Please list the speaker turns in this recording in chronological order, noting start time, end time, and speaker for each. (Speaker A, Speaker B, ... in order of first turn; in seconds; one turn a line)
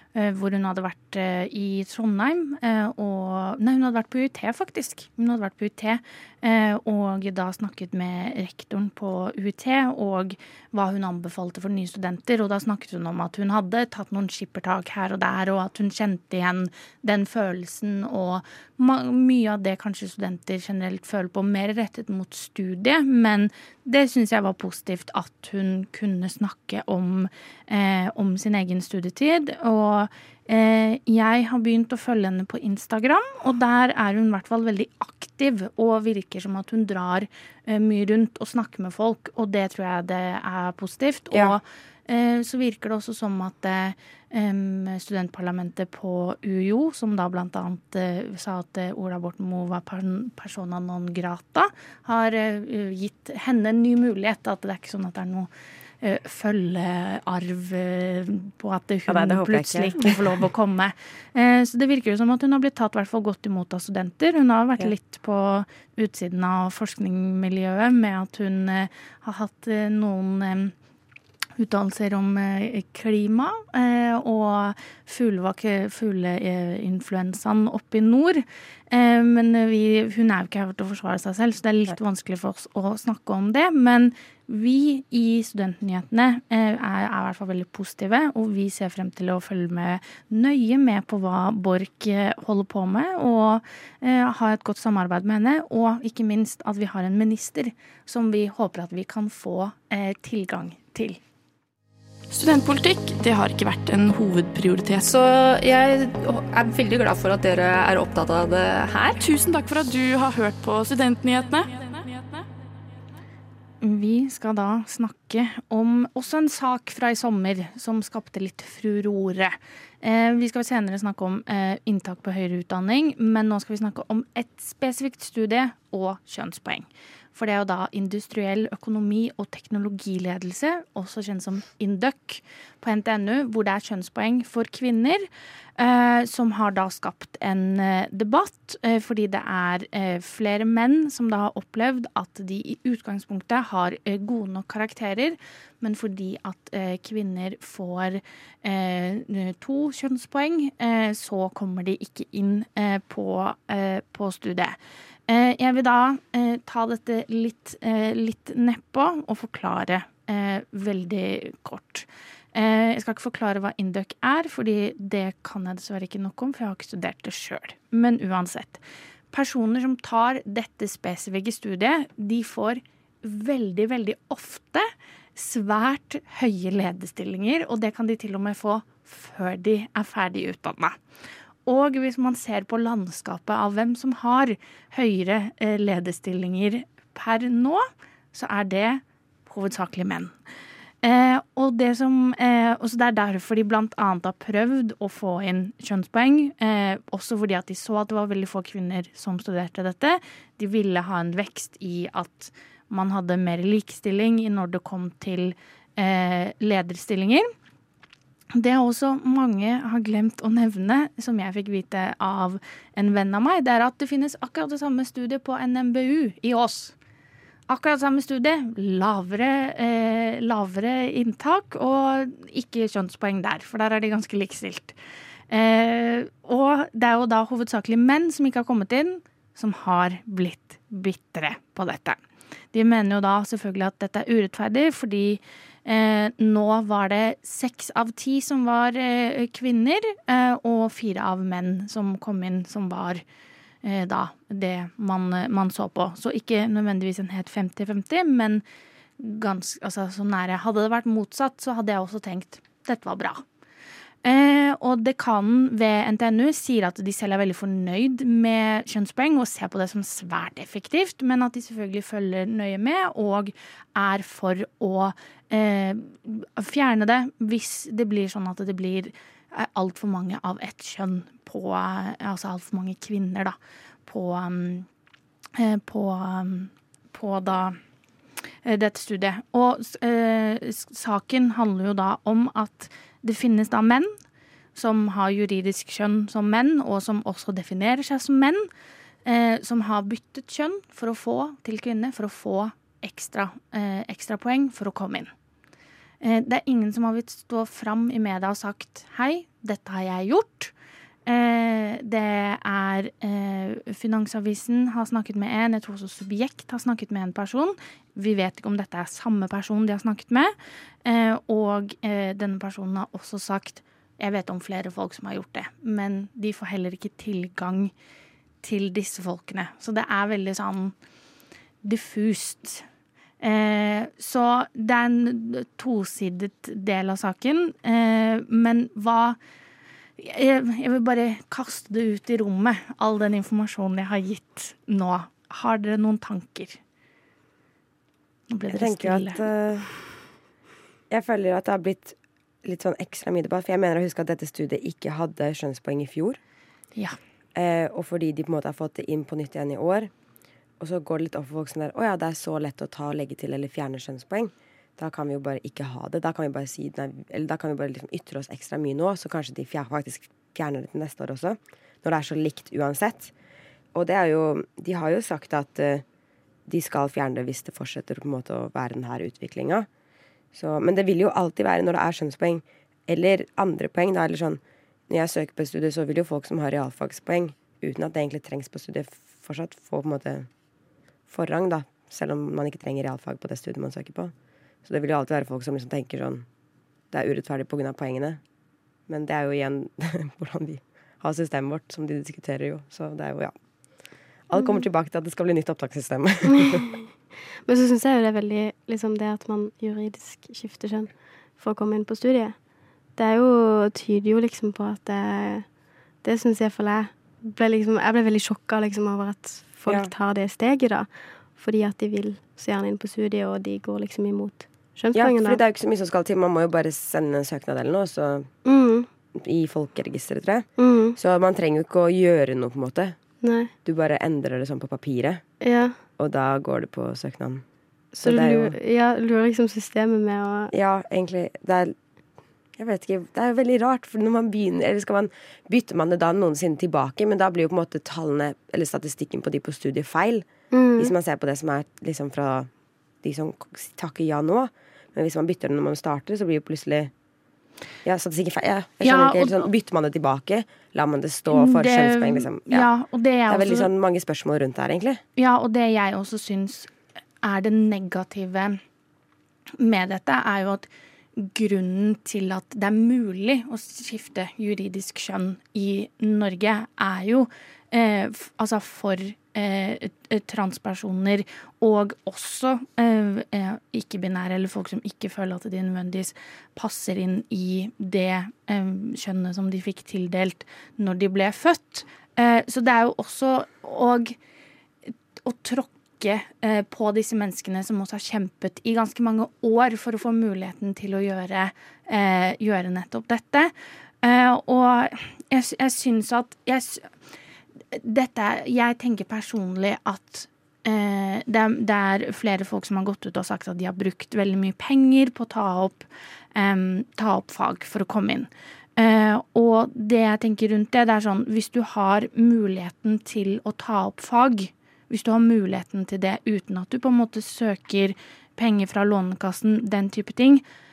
Speaker A: 0.1-55.5
Speaker A: 56.0-70.7
Speaker B: 59.1-60.2
Speaker A: 71.6-101.2
Speaker C: 102.3-105.0
Speaker D: 105.0-109.2
Speaker C: 109.2-112.4
Speaker A: 113.8-168.8
Speaker A: 169.3-181.0
Speaker A: 181.7-190.3
Speaker A: 191.0-207.5
Speaker A: 208.6-216.9
Speaker A: 217.7-225.0
Speaker A: 225.5-232.2
Speaker A: 232.7-243.2
Speaker A: 243.8-248.6
Speaker A: 249.2-253.4
Speaker A: 254.2-273.6
Speaker A: 274.1-274.9
Speaker A: 275.6-277.8
Speaker A: 278.6-284.1
Speaker A: 284.8-288.7
Speaker A: 289.2-295.3
Speaker A: 296.2-300.7
Speaker A: 301.3-310.5
Speaker A: 311.1-317.9
Speaker A: 318.6-320.9
Speaker A: 321.8-322.8
Speaker A: 323.4-329.4
Speaker A: 330.2-336.8
Speaker A: 338.5-339.4
Speaker B: 338.7-340.1
Speaker B: 341.1-346.4
Speaker B: 347.6-350.1
Speaker B: 350.8-363.3
Speaker B: 363.9-366.0
Speaker B: 366.7-369.9
Speaker B: 370.5-380.5
Speaker B: 381.3-384.3
Speaker B: 384.9-386.5
Speaker B: 387.1-388.4
Speaker B: 389.1-393.5
Speaker B: 394.5-396.8
Speaker E: 396.5-397.1
Speaker E: 397.7-402.6
Speaker E: 403.2-405.7
Speaker E: 406.2-415.6
Speaker B: 415.1-418.5
Speaker E: 418.6-419.1
Speaker B: 419.3-423.2
Speaker E: 420.8-421.2
Speaker E: 423.4-423.7
Speaker B: 423.9-425.4
Speaker E: 425.6-426.0
Speaker B: 426.2-427.6
Speaker E: 428.1-430.7
Speaker B: 428.2-428.8
Speaker B: 430.7-432.0
Speaker B: 432.8-442.7
Speaker E: 440.7-441.1
Speaker B: 443.2-447.1
Speaker B: 448.0-452.9
Speaker A: 449.0-449.7
Speaker A: 451.5-453.9
Speaker B: 453.5-455.2
Speaker A: 455.4-458.8
Speaker A: 459.8-484.4
Speaker A: 485.4-493.7
Speaker A: 494.2-497.1
Speaker A: 497.9-520.6